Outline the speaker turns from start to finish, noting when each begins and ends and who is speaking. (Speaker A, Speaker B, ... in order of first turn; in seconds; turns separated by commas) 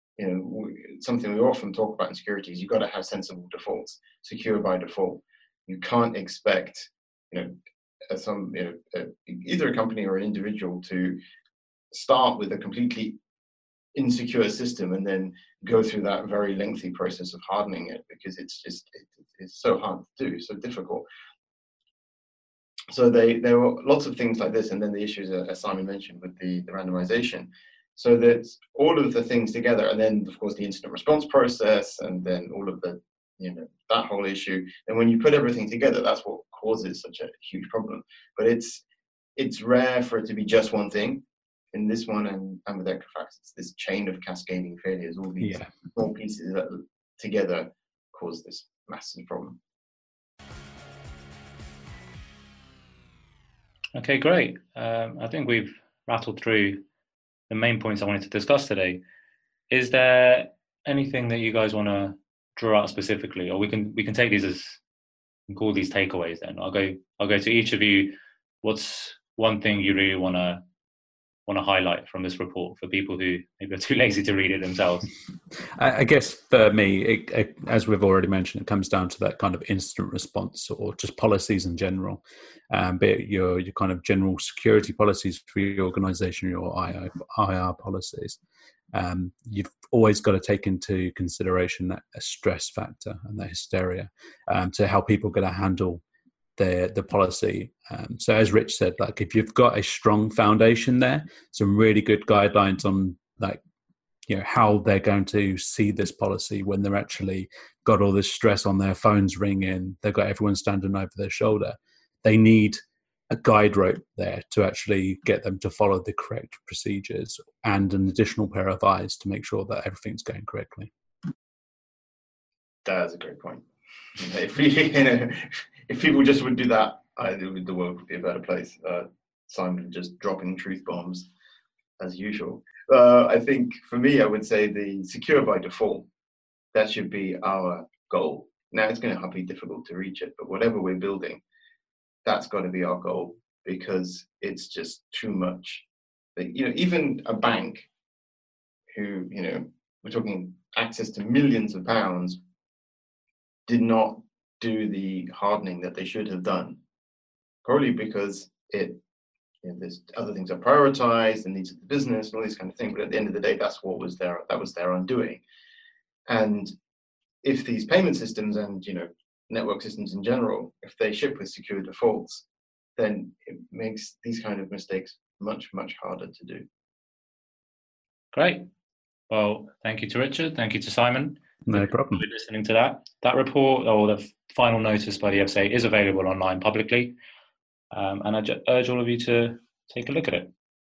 Speaker A: 0.2-7.5, Speaker A: 8.1-11.2, Speaker A: 11.9-13.2, Speaker A: 13.9-21.0, Speaker A: 22.9-38.8, Speaker A: 39.4-41.2, Speaker A: 41.7-49.6, Speaker B: 45.4-45.7, Speaker C: 53.9-56.8, Speaker C: 57.5-59.0, Speaker C: 59.7-64.8, Speaker C: 65.5-70.6, Speaker C: 71.5-75.1, Speaker B: 75.8-88.4, Speaker B: 88.9-96.0, Speaker B: 96.6-103.6, Speaker B: 104.3-120.9, Speaker A: 122.8-123.6, Speaker A: 124.2-131.3, Speaker A: 132.0-136.1, Speaker A: 136.7-141.4, Speaker A: 142.2-145.8, Speaker A: 146.3-147.9, Speaker A: 148.9-152.4, Speaker A: 153.7-156.8, Speaker A: 157.6-159.0, Speaker A: 159.6-165.4, Speaker A: 166.3-166.7, Speaker A: 167.4-172.4, Speaker A: 173.0-176.6, Speaker C: 178.3-178.7, Speaker C: 179.3-187.1, Speaker B: 181.7-182.2, Speaker C: 187.9-190.5